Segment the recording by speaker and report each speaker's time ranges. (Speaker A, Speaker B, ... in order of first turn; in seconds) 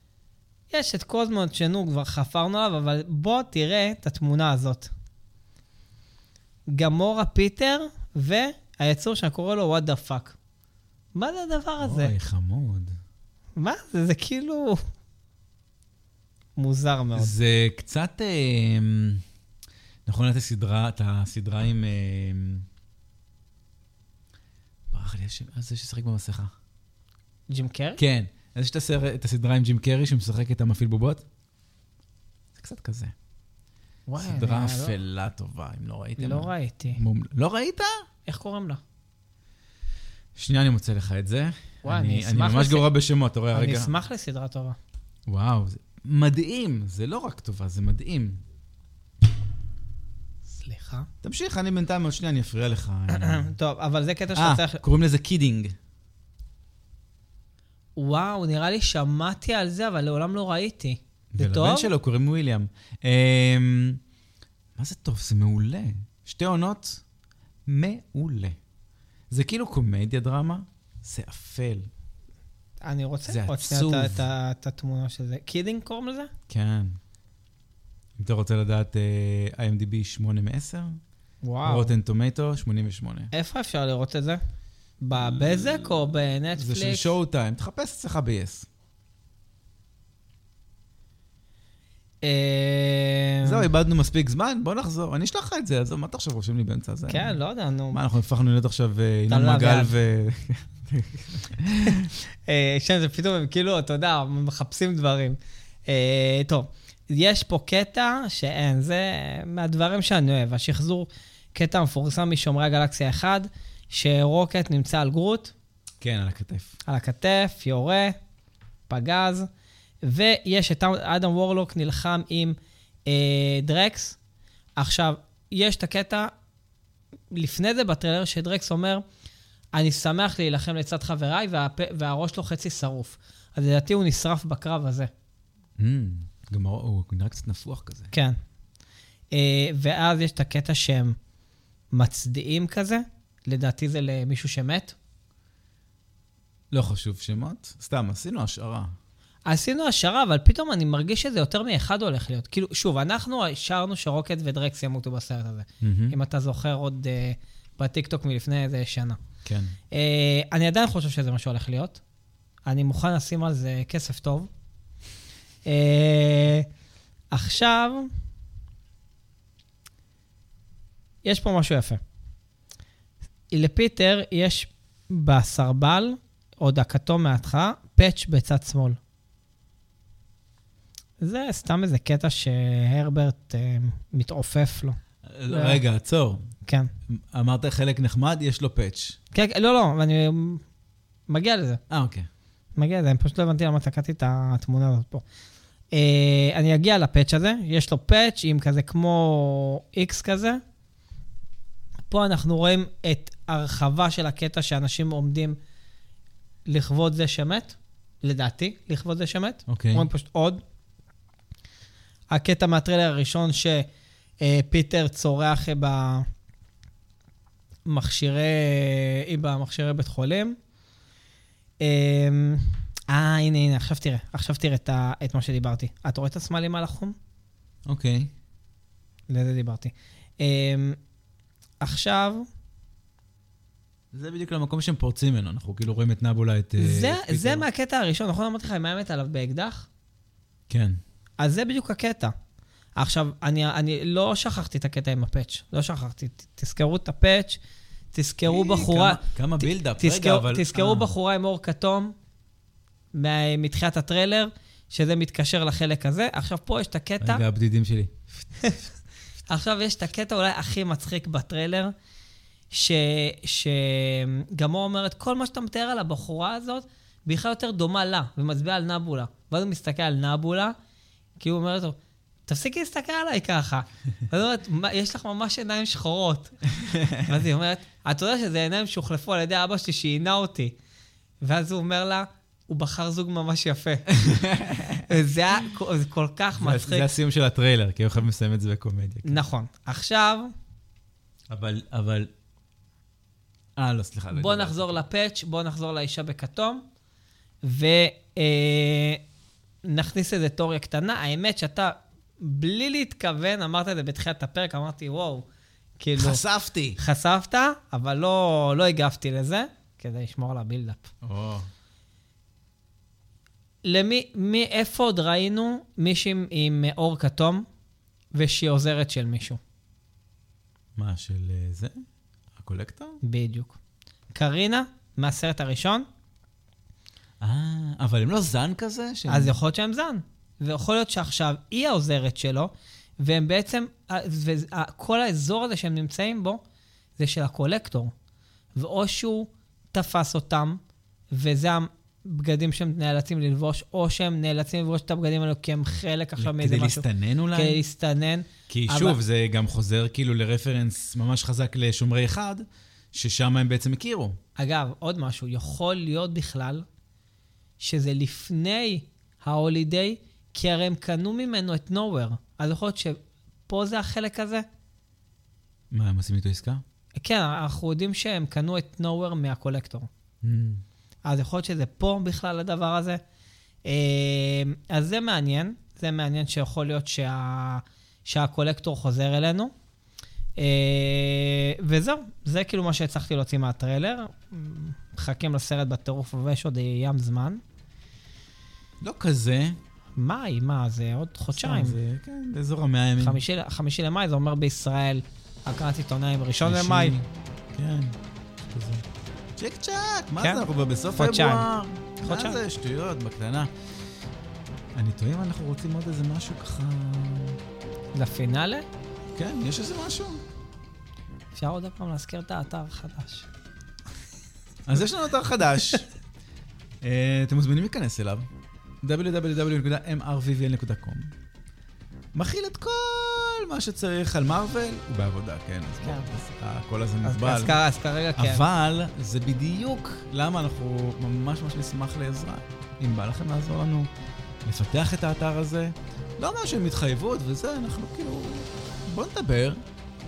Speaker A: 0.7-4.9, 6.7-10.3, 11.1-12.1, 13.6-14.8, 16.6-17.3, 27.5-28.0, 34.1-35.0, 36.2-37.0, 38.2-38.8, 41.8-42.9, 43.5-44.8, 50.5-51.1, 53.1-54.8, 58.0-61.9, 72.8-76.3, 81.4-81.9, 83.3-84.4, 85.0-87.1, 92.2-93.7, 97.1-98.0, 99.3-99.9, 101.9-115.5, 116.8-118.2, 118.9-119.5, 120.0-124.2, 124.8-126.3, 127.3-129.0, 129.7-135.1, 138.1-138.4, 139.3-141.2, 141.9-144.9, 149.4-159.2, 159.9-162.0, 162.7-164.5, 165.6-166.7, 167.3-168.1, 171.2-172.0, 173.5-179.0, 181.2-184.9, 185.5-185.8, 186.6-186.9, 189.3-190.6, 191.3-191.8, 192.8-195.2, 195.9-200.6, 202.1-205.6, 206.7-210.6, 212.3-213.9, 214.4-216.3, 217.8-220.6, 221.8-227.2, 229.3-231.0, 231.8-232.5, 236.8-239.9, 241.4-242.3, 243.0-247.6, 248.1-252.1, 253.1-257.4, 259.5-261.9, 262.7-270.7, 271.4-276.6, 277.2-280.8, 281.4-284.2, 285.1-287.1, 289.2-290.5, 294.3-296.8, 297.6-299.2, 299.8-305.4, 306.0-306.4, 307.0-311.1, 313.8-317.6, 318.3-319.6, 323.2-323.8, 324.3-326.0, 329.3-336.6, 337.2-338.1, 338.8-340.8, 341.3-349.2, 354.6-356.8, 357.8-364.6, 367.1-370.1, 371.2-373.2, 373.8-379.7, 380.6-387.6, 390.2-392.0, 393.2-397.1, 400.4-401.6, 402.2-402.6, 408.1-408.9, 411.5-413.5, 427.2-428.6
Speaker B: 11.8-12.9, 17.1-19.2, 20.1-22.6, 24.9-26.5, 28.0-31.2, 32.5-33.1, 34.2-37.9, 40.4-43.9, 45.3-48.4, 51.2-53.5, 54.3-55.7, 61.3-64.0, 64.8-67.0, 67.7-68.6, 69.3-71.9, 73.3-74.3, 76.5-77.0, 78.2-81.0, 81.6-83.3, 85.1-88.7, 93.4-97.4, 97.9-102.1, 116.0-116.8, 135.8-138.1, 146.7-148.9, 155.8-156.2, 159.4-159.7, 185.3-186.5, 187.1-189.2, 191.9-192.3, 209.7-210.1, 227.8-228.3, 234.1-237.7, 240.7-241.0, 248.5-251.1, 257.2-258.4, 276.8-277.4, 284.1-285.2, 286.6-289.4, 291.5-292.3, 293.8-295.0, 306.2-307.0, 311.2-311.6, 320.9-322.0, 322.6-323.2, 327.4-329.6, 346.4-347.8, 348.7-354.4, 365.9-366.8, 370.4-370.8, 389.0-389.8, 391.6-393.4, 396.6-398.1, 398.7-399.0, 399.6-403.7, 404.9-407.6, 409.4-410.4, 414.9-416.1, 417.0-418.5, 419.0-421.3, 422.3-427.8, 428.4-434.1, 434.6-439.8